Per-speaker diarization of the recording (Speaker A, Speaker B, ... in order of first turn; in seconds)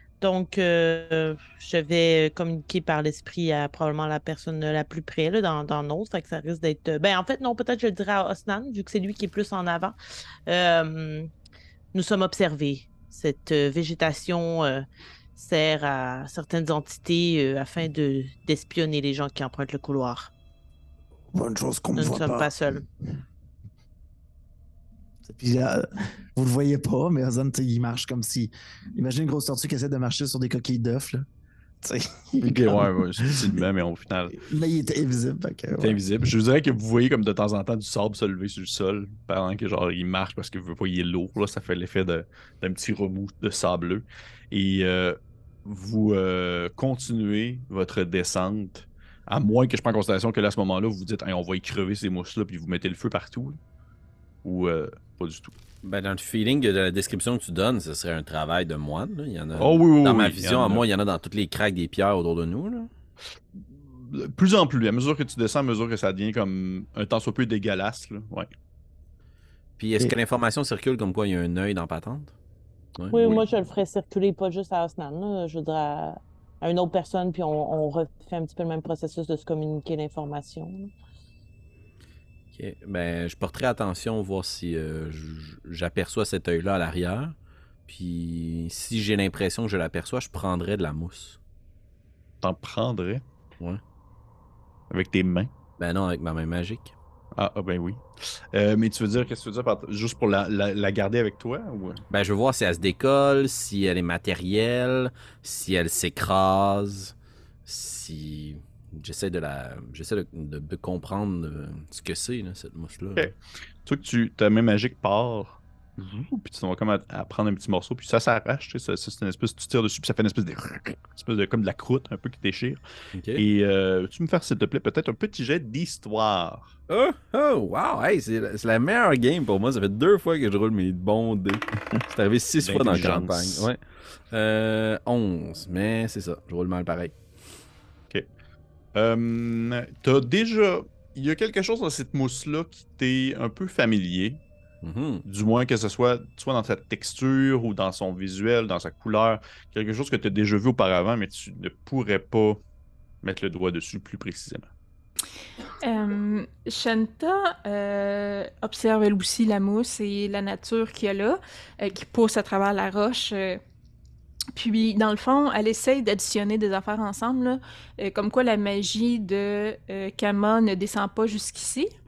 Speaker A: 0.2-10.0, 10.5-11.3, 11.9-14.8, 15.4-20.3, 22.0-22.8, 73.1-80.9
Speaker B: 21.3-22.5, 25.2-31.2, 31.8-33.6, 34.3-36.0
Speaker C: 32.4-34.4, 35.8-53.6, 54.4-55.5, 59.6-60.9, 63.5-68.5, 92.4-93.2, 94.9-95.5, 97.4-102.0, 113.9-122.8, 123.4-126.7, 132.6-133.7, 138.9-144.4, 145.2-152.6, 153.2-154.7
Speaker D: 55.8-62.9, 69.8-72.3, 73.0-73.5, 82.5-87.4, 87.9-91.4, 95.8-97.0, 102.1-107.1, 107.7-113.3, 123.1-123.4, 126.9-133.8, 134.3-137.2, 144.8-145.2
Speaker E: 155.8-163.6, 164.6-171.9